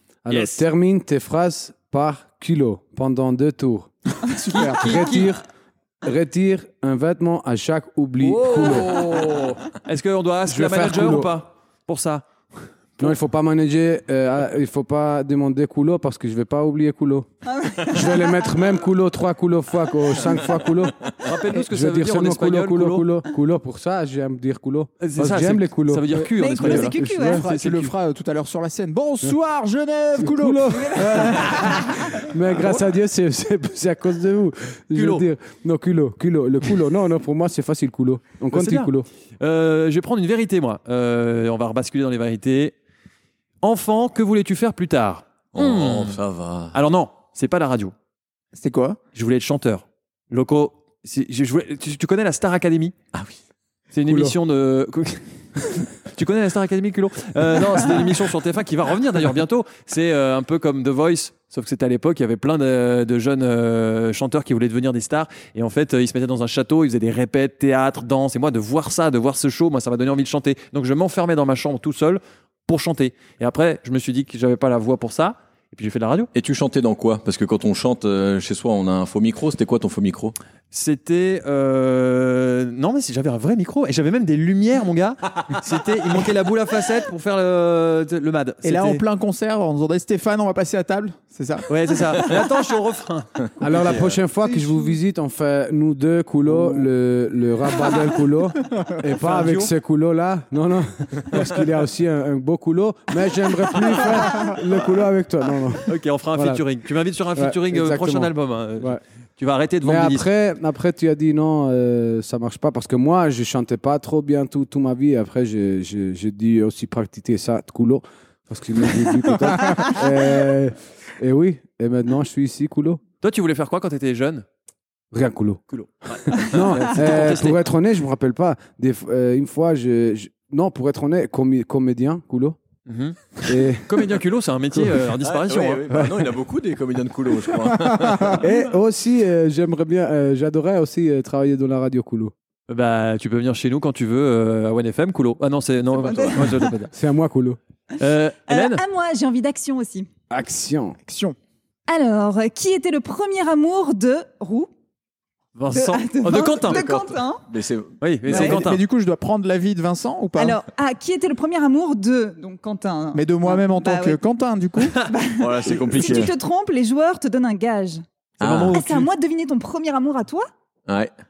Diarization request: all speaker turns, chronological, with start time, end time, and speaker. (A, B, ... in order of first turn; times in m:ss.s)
0:00.2-0:03.9 A
0:00.3-0:00.6 B
0:04.2-0:05.2 C
0:04.5-0:05.2 B
0:04.8-0:05.4 A
0:06.0-0:08.9 A
0:08.2-0:12.3 B
0:08.5-0:09.5 D
0:10.5-0:11.3 A
0:13.0-0:27.5 A
0:17.5-0:18.4 E
0:21.2-0:23.1 B
0:25.0-0:27.9 B
0:26.4-0:27.5 E
0:27.4-0:31.8 C
0:30.2-0:39.1 A
0:34.9-0:35.3 B
0:38.5-0:42.8 B
0:43.6-0:46.2 B
0:45.5-0:46.8 D
0:46.7-0:47.9 B
0:48.6-0:49.0 C
0:49.2-0:52.9 B
0:53.9-1:16.3 B
0:54.1-0:54.4 A
1:16.3-1:20.4 D
1:20.7-1:29.0 B
1:28.6-1:32.3 C
1:31.7-1:34.2 B
1:33.6-1:46.6 A
1:39.1-1:39.7 B
1:45.9-1:50.3 B
1:47.4-1:49.0 A
1:49.8-2:03.0 A
2:03.2-2:04.4 B
2:05.1-2:05.6 A
2:05.7-2:07.6 B
2:06.3-2:12.6 A
2:12.9-2:15.9 B
2:13.4-2:15.1 A
2:15.2-2:18.4 D
2:15.9-2:16.3 A
2:17.9-2:18.4 C
2:18.3-2:22.3 A
2:22.7-2:26.9 B
2:26.0-2:26.4 D
2:26.9-2:27.6 A
2:28.0-2:28.8 B
2:28.5-2:30.1 E
2:30.3-2:31.0 A
2:31.0-2:31.4 C
2:31.9-2:34.7 E
2:35.6-2:36.8 B
2:35.7-2:37.4 E
2:36.7-2:38.0 D
2:38.0-2:38.8 B
2:38.3-2:40.6 C
2:38.3-2:38.6 E
2:40.4-2:44.2 E
2:43.1-2:45.1 C
2:45.0-2:48.0 E
2:45.4-2:46.3 D
2:46.0-2:46.2 C
2:48.4-2:48.9 D
2:48.4-2:49.1 B
2:48.7-2:50.5 E